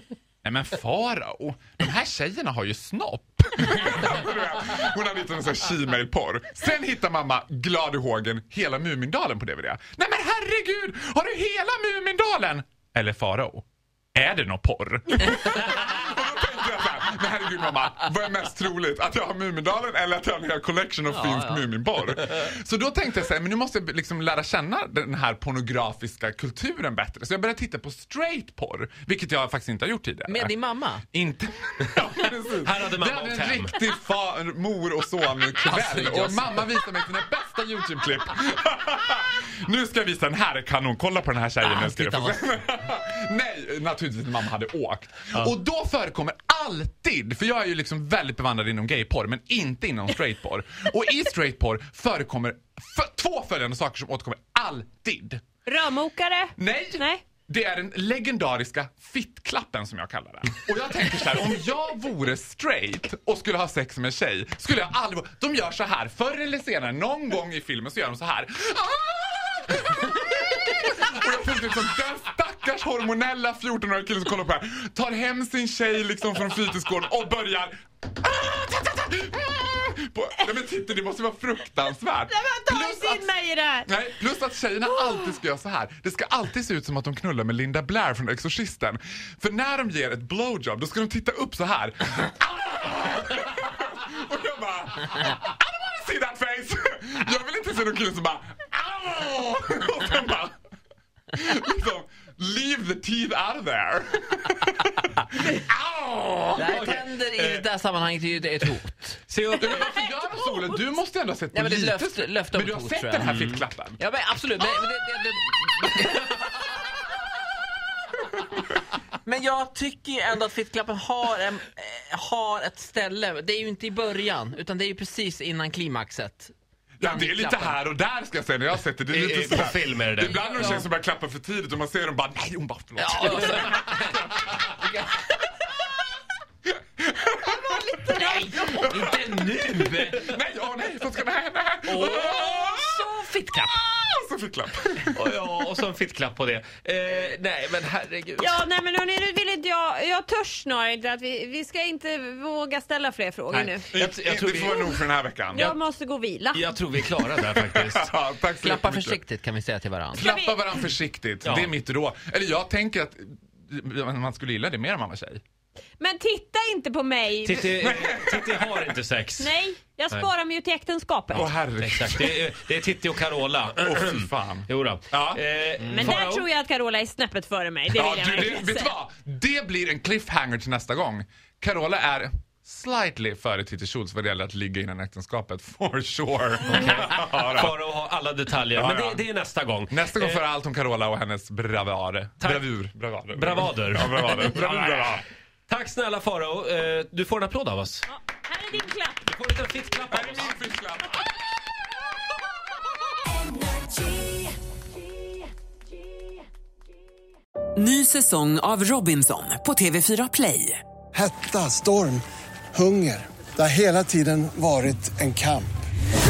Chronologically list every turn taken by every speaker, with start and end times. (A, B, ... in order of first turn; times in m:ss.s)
0:00.4-0:30.5 A
0:21.1-0:21.6 B
0:30.3-0:31.0 B
0:31.1-0:55.4 A
0:32.6-0:33.7 C
0:35.6-0:36.5 B
0:41.6-0:42.4 B
0:55.6-0:57.2 D
0:56.6-1:23.3 A
1:22.3-1:23.9 D
1:23.9-1:40.5 A
1:41.3-1:44.9 A
1:45.4-1:46.8 A
1:46.5-1:49.2 B
1:46.6-1:47.6 C
1:49.3-1:50.0 C
1:49.6-1:54.0 A
1:51.5-1:56.3 B
1:59.2-2:06.5 B
2:07.0-2:14.1 A
2:07.0-2:07.8 B
2:09.1-2:10.8 C
2:10.3-2:10.8 B
2:13.0-2:15.2 B
2:16.6-2:25.3 A
2:17.9-2:19.3 B
2:18.7-2:20.3 C
2:21.9-2:23.8 B
2:21.9-2:22.5 C
2:25.1-2:28.6 C
2:28.4-2:33.8 D
2:33.5-2:35.8 C
2:33.9-2:35.7 A
2:35.6-2:36.6 D
2:36.5-2:38.1 C
2:37.2-2:39.2 A
2:38.6-2:40.3 B
2:40.1-2:45.4 A
2:40.2-2:40.6 D
2:41.4-2:41.7 C
2:46.0-2:47.7 D
2:47.4-2:49.6 C
2:47.7-2:48.9 A
2:49.4-2:51.4 D
2:51.3-2:56.4 C
2:51.3-2:52.6 A
2:53.8-2:55.4 A
2:56.0-2:58.9 D
2:57.9-3:07.8 A
3:06.7-3:10.5 C
3:08.7-3:09.2 A
3:09.9-3:15.2 A
3:12.4-3:18.0 C
3:18.5-3:19.2 D
3:19.3-3:20.6 C
3:20.1-3:21.6 A
3:27.7-3:30.8 E
3:31.1-3:32.2 F
3:32.7-3:35.7 F